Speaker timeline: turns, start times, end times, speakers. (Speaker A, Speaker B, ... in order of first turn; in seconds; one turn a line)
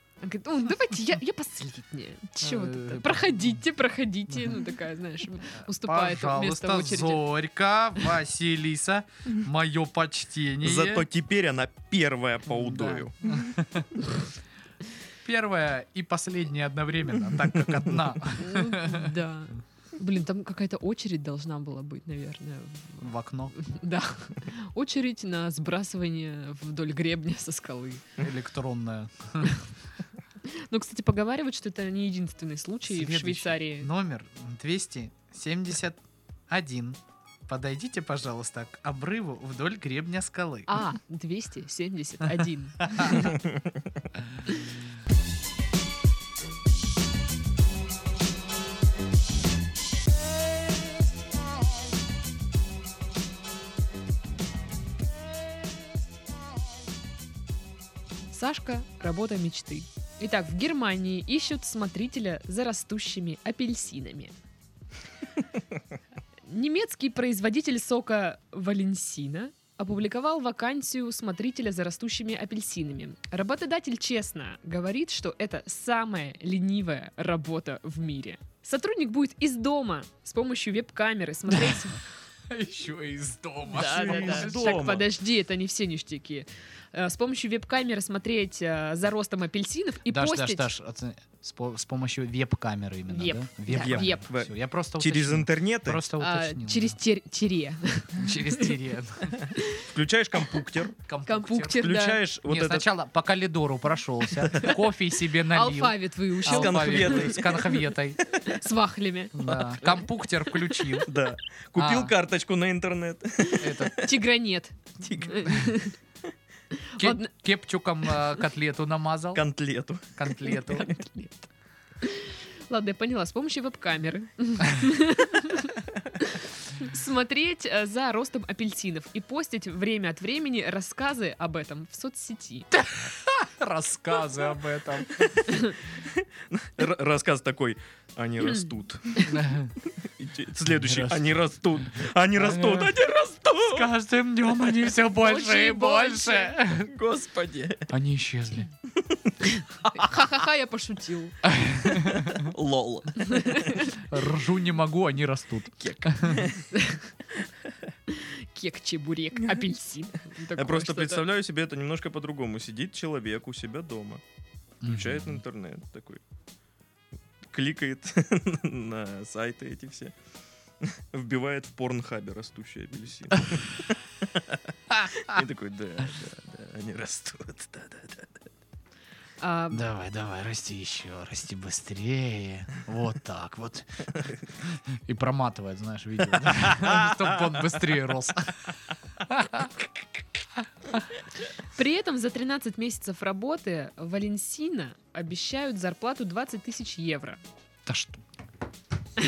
Speaker A: 0.2-7.2
Speaker B: 2.4-3.6
Speaker B: 5.6-11.1
Speaker C: 10.6-13.1
Speaker B: 12.5-14.1
Speaker B: 15.2-19.1
Speaker A: 18.4-28.0
Speaker B: 23.0-23.5
Speaker B: 28.2-29.6
Speaker A: 30.4-33.9
Speaker B: 32.8-40.8
Speaker A: 40.7-43.4
Speaker B: 42.4-43.3
Speaker A: 58.3-64.4
Speaker A: 66.5-82.0
Speaker B: 81.5-81.8
Speaker B: 82.5-84.9
Speaker A: 83.7-90.7
Speaker C: 83.7-85.1
Speaker B: 90.1-97.0
Speaker A: 93.1-94.2
Speaker C: 93.7-96.0
Speaker A: 96.2-98.7
Speaker B: 98.1-99.4
Speaker C: 99.4-101.0
Speaker A: 99.5-99.9
Speaker B: 101.0-101.9
Speaker A: 101.2-102.2
Speaker C: 101.8-102.9
Speaker B: 102.5-108.2
Speaker A: 105.4-111.0
Speaker C: 106.5-107.7
Speaker B: 109.3-111.1
Speaker C: 111.0-114.1
Speaker B: 111.8-112.1
Speaker A: 113.5-116.0
Speaker B: 113.6-114.0
Speaker C: 115.0-115.6
Speaker A: 116.7-117.3
Speaker B: 117.0-119.4
Speaker C: 119.3-120.2
Speaker B: 120.1-120.9
Speaker A: 120.3-121.5
Speaker A: 122.0-132.7
Speaker B: 132.7-135.2
Speaker C: 135.1-139.4
Speaker A: 135.5-135.8
Speaker A: 138.4-139.4
Speaker B: 139.3-139.7
Speaker C: 140.0-143.9
Speaker B: 140.7-141.2
Speaker B: 142.3-142.9
Speaker B: 143.6-146.9
Speaker A: 145.1-146.6
Speaker C: 146.8-147.9
Speaker B: 147.9-148.7
Speaker C: 149.0-149.3
Speaker A: 149.4-151.4
Speaker B: 151.4-152.5
Speaker C: 152.0-153.9
Speaker A: 153.2-153.9
Speaker B: 154.0-156.5
Speaker C: 155.8-156.6
Speaker A: 156.7-157.1
Speaker A: 158.1-161.2
Speaker C: 160.5-164.2
Speaker B: 164.8-165.4
Speaker C: 164.8-166.2
Speaker C: 167.5-170.1
Speaker C: 170.8-174.6
Speaker C: 175.1-178.4
Speaker A: 179.4-179.8
Speaker B: 179.7-184.1
Speaker B: 184.6-189.9
Speaker C: 186.8-187.2
Speaker B: 190.6-191.0
Speaker A: 191.7-197.4
Speaker B: 197.9-198.2